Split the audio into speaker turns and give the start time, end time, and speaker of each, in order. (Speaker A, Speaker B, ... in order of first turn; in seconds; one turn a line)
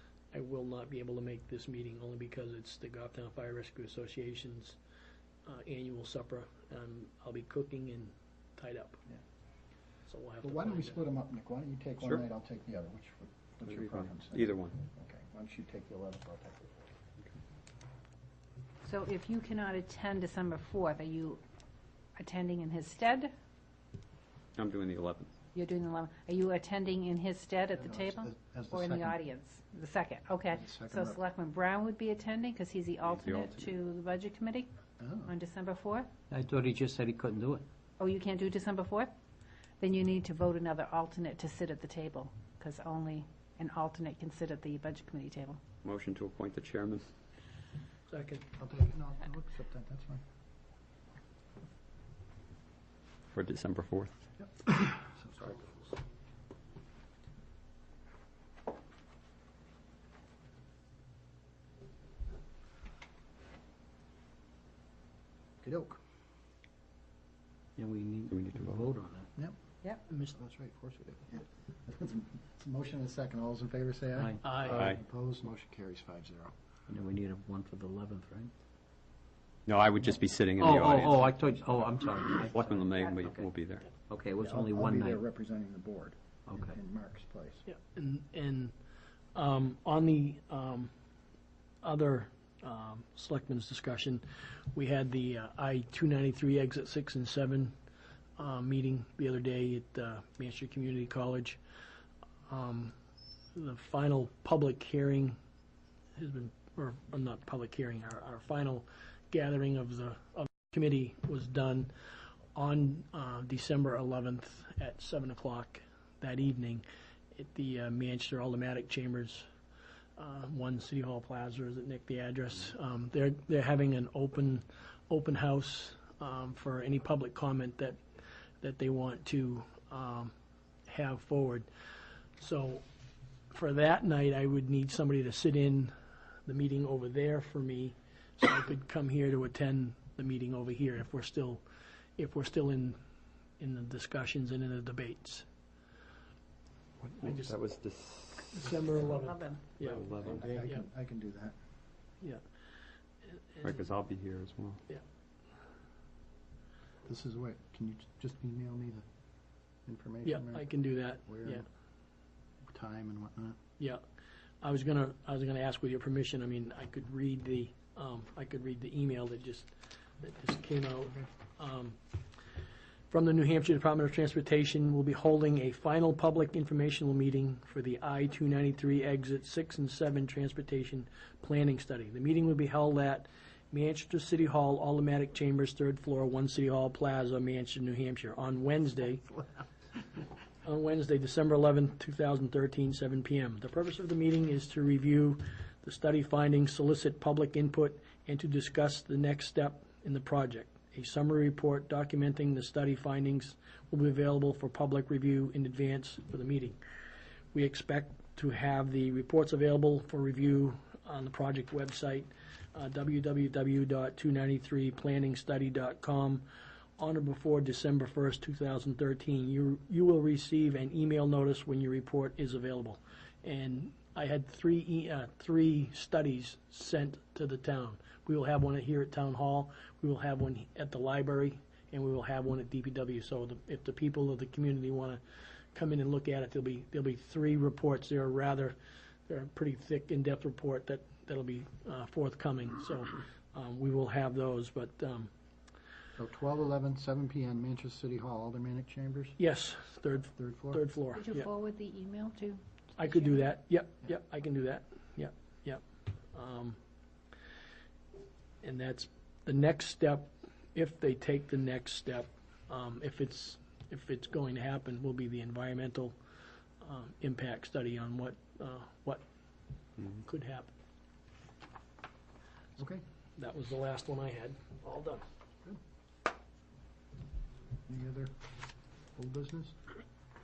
Speaker A: 0.3-4.8
Speaker A: 5.5-9.0
Speaker A: 10.1-11.1
Speaker B: 10.4-16.7
Speaker C: 13.7-14.8
Speaker D: 18.8-21.4
Speaker D: 22.2-23.3
Speaker C: 24.6-25.3
Speaker D: 25.5-34.7
Speaker B: 27.8-29.2
Speaker B: 30.5-31.2
Speaker C: 33.0-33.8
Speaker B: 35.0-35.3
Speaker D: 35.2-36.1
Speaker E: 36.3-37.7
Speaker D: 38.0-39.1
Speaker D: 39.8-45.6
Speaker C: 45.8-47.1
Speaker A: 48.1-48.5
Speaker B: 48.6-50.2
Speaker C: 53.3-54.1
Speaker B: 54.4-55.9
Speaker B: 65.6-66.0
Speaker E: 67.8-69.3
Speaker C: 68.3-68.9
Speaker A: 70.1-70.3
Speaker B: 70.3-76.5
Speaker E: 74.2-74.9
Speaker A: 74.4-74.8
Speaker C: 74.7-75.0
Speaker E: 76.9-78.5
Speaker C: 79.7-81.3
Speaker E: 80.6-83.4
Speaker C: 82.4-83.9
Speaker E: 84.0-85.2
Speaker B: 84.4-87.6
Speaker E: 86.5-86.8
Speaker A: 87.7-88.7
Speaker A: 89.3-90.9
Speaker A: 91.8-97.8
Speaker A: 98.4-101.6
Speaker A: 102.5-102.9
Speaker A: 103.5-105.4
Speaker A: 106.2-111.9
Speaker A: 112.5-119.5
Speaker A: 120.2-128.0
Speaker A: 128.6-130.3
Speaker A: 130.9-131.7
Speaker A: 132.4-132.8
Speaker A: 133.5-135.9
Speaker A: 136.5-141.6
Speaker A: 142.2-143.0
Speaker A: 143.6-145.5
Speaker C: 147.0-149.1
Speaker A: 147.2-147.6
Speaker A: 148.5-150.9
Speaker D: 149.1-149.6
Speaker C: 149.8-150.5
Speaker B: 150.3-151.6
Speaker A: 153.3-153.8
Speaker C: 153.6-154.8
Speaker B: 157.1-159.1
Speaker B: 159.9-160.7
Speaker A: 160.2-161.7
Speaker B: 161.2-161.7
Speaker B: 162.7-163.6
Speaker A: 164.6-172.0
Speaker A: 173.1-189.4
Speaker A: 190.6-206.8
Speaker A: 207.5-216.5
Speaker A: 217.0-235.2
Speaker A: 235.7-238.8
Speaker A: 239.3-245.3
Speaker B: 246.2-249.4
Speaker A: 249.4-251.5
Speaker B: 250.3-250.8
Speaker D: 251.1-253.4
Speaker A: 253.0-255.8
Speaker A: 256.3-256.8
Speaker A: 258.6-266.2
Speaker A: 266.8-269.2
Speaker A: 270.1-270.7
Speaker B: 272.8-273.0
Speaker A: 273.4-275.2
Speaker B: 277.9-278.3
Speaker B: 279.2-279.8